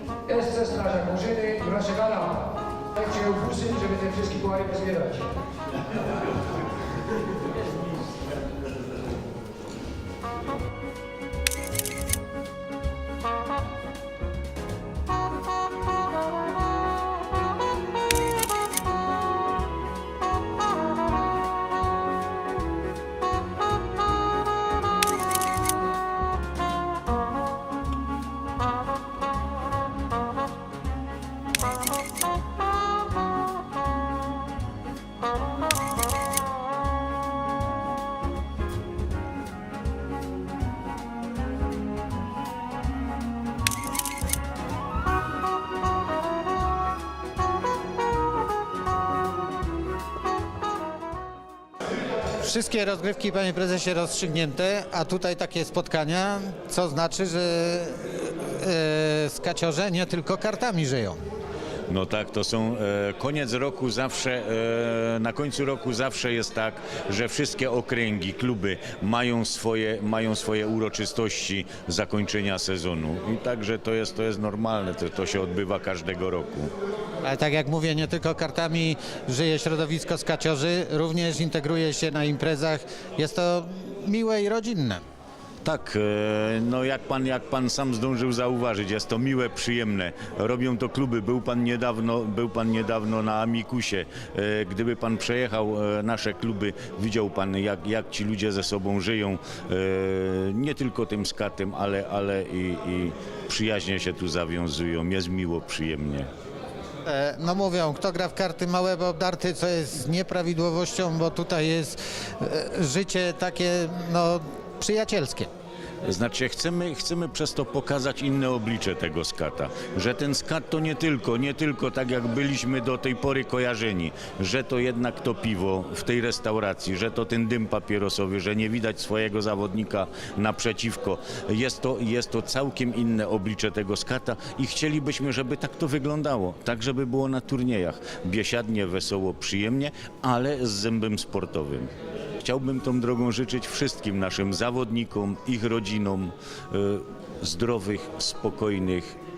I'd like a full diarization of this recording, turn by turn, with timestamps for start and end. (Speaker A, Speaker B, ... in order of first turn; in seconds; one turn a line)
Speaker A: 0.3-5.3
Speaker B: 52.4-61.2
Speaker C: 61.9-76.7
Speaker B: 77.2-85.0
Speaker C: 85.6-106.3
Speaker B: 107.0-115.5
Speaker C: 116.0-149.2